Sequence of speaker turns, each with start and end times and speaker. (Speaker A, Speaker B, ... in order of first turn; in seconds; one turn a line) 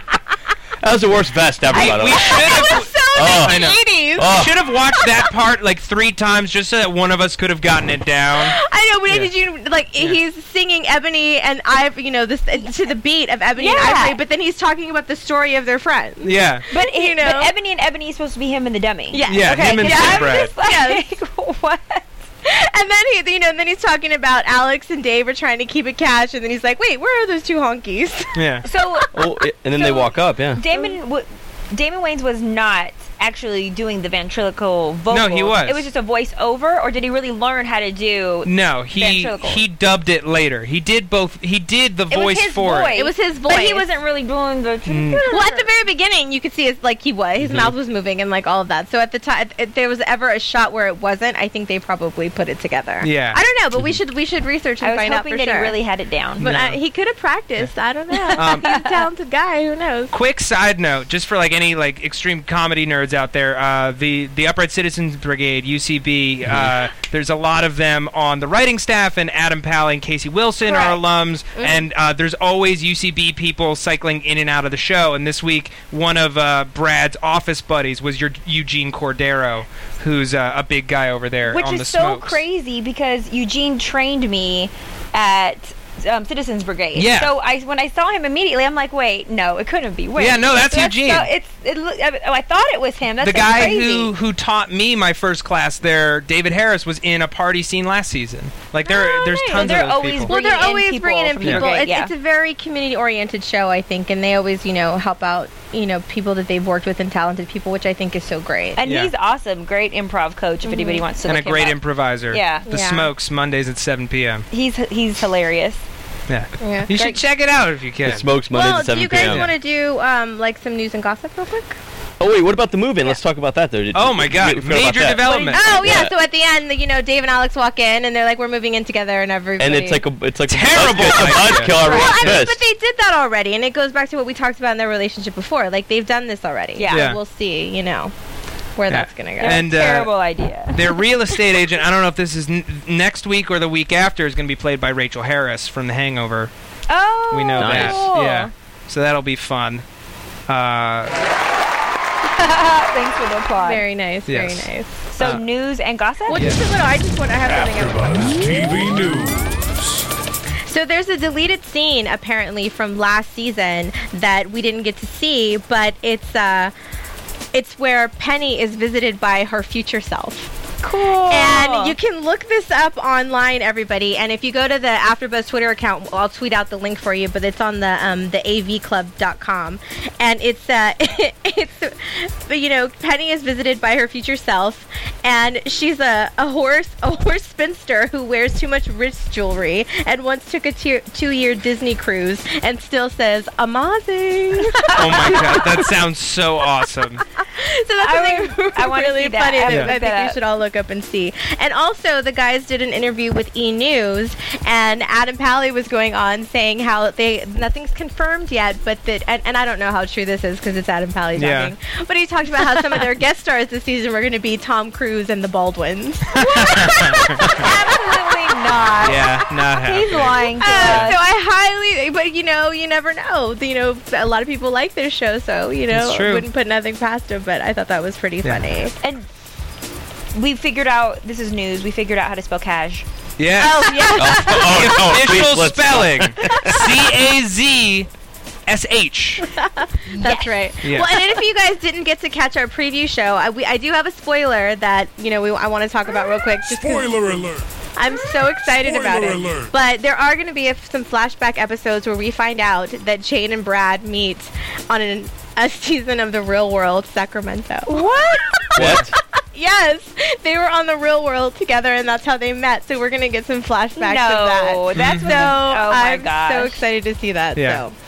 Speaker A: 0.8-4.5
Speaker B: 1.7-4.3
Speaker C: 1.7-9.3
Speaker B: 8.4-17.5
Speaker D: 13.6-14.2
Speaker C: 16.2-16.6
Speaker D: 16.7-22.1
Speaker B: 19.1-21.1
Speaker C: 19.3-20.5
Speaker B: 22.4-28.3
Speaker C: 28.3-28.6
Speaker D: 28.6-29.1
Speaker A: 29.1-30.6
Speaker D: 29.7-39.6
Speaker B: 30.7-31.0
Speaker C: 35.1-35.8
Speaker C: 38.4-42.9
Speaker D: 42.1-45.7
Speaker B: 42.9-43.9
Speaker C: 44.9-45.2
Speaker B: 45.3-55.7
Speaker A: 47.4-47.7
Speaker C: 53.0-53.4
Speaker D: 54.8-56.5
Speaker B: 56.4-60.1
Speaker C: 56.4-56.8
Speaker D: 58.1-59.1
Speaker C: 58.3-58.7
Speaker C: 60.1-82.4
Speaker A: 66.4-66.7
Speaker B: 70.7-71.0
Speaker B: 71.5-71.8
Speaker D: 81.5-94.1
Speaker C: 87.0-87.3
Speaker C: 90.2-91.3
Speaker C: 93.2-100.3
Speaker B: 98.9-99.7
Speaker D: 99.5-102.1
Speaker B: 100.3-108.8
Speaker D: 108.8-112.7
Speaker C: 108.8-109.1
Speaker B: 110.6-111.0
Speaker C: 111.2-114.5
Speaker B: 112.7-113.1
Speaker D: 114.5-115.8
Speaker C: 116.3-118.3
Speaker B: 116.6-116.9
Speaker D: 116.9-117.2
Speaker A: 118.0-119.5
Speaker B: 118.5-121.8
Speaker C: 119.2-119.5
Speaker A: 122.2-126.1
Speaker C: 123.9-125.7
Speaker D: 125.2-126.0
Speaker B: 125.5-130.0
Speaker A: 129.6-132.6
Speaker C: 130.5-131.8
Speaker B: 131.7-138.1
Speaker D: 131.7-132.3
Speaker D: 136.7-137.1
Speaker C: 136.9-137.2
Speaker B: 138.8-139.6
Speaker C: 138.9-140.1
Speaker D: 139.4-141.0
Speaker C: 140.7-146.5
Speaker D: 146.9-148.5
Speaker C: 147.3-149.8
Speaker A: 147.6-148.0
Speaker C: 150.5-151.1
Speaker D: 152.3-153.8
Speaker B: 153.6-154.9
Speaker C: 154.3-155.4
Speaker D: 155.1-156.6
Speaker B: 156.3-159.0
Speaker C: 156.3-156.6
Speaker E: 157.5-160.0
Speaker B: 160.7-166.7
Speaker B: 167.5-170.5
Speaker D: 170.8-171.9
Speaker B: 171.3-195.9
Speaker D: 194.6-195.6
Speaker C: 194.9-197.2
Speaker B: 197.4-219.0
Speaker D: 198.0-200.4
Speaker C: 199.7-199.9
Speaker C: 211.3-211.7
Speaker C: 212.7-213.1
Speaker C: 216.3-217.6
Speaker D: 217.4-221.2
Speaker C: 219.0-221.1
Speaker B: 220.3-228.9
Speaker C: 225.9-226.4
Speaker C: 228.4-228.7
Speaker D: 229.0-229.3
Speaker D: 230.3-233.0
Speaker C: 233.4-238.1
Speaker B: 233.6-235.1
Speaker A: 234.1-236.9
Speaker B: 236.4-236.8
Speaker C: 238.7-239.5
Speaker B: 239.5-267.9
Speaker D: 240.1-241.0
Speaker C: 240.8-241.1
Speaker E: 246.6-247.7
Speaker E: 248.8-249.7
Speaker D: 257.9-258.7
Speaker A: 258.7-259.1
Speaker C: 258.8-259.1
Speaker D: 264.0-266.8
Speaker C: 264.9-265.5
Speaker C: 267.5-267.8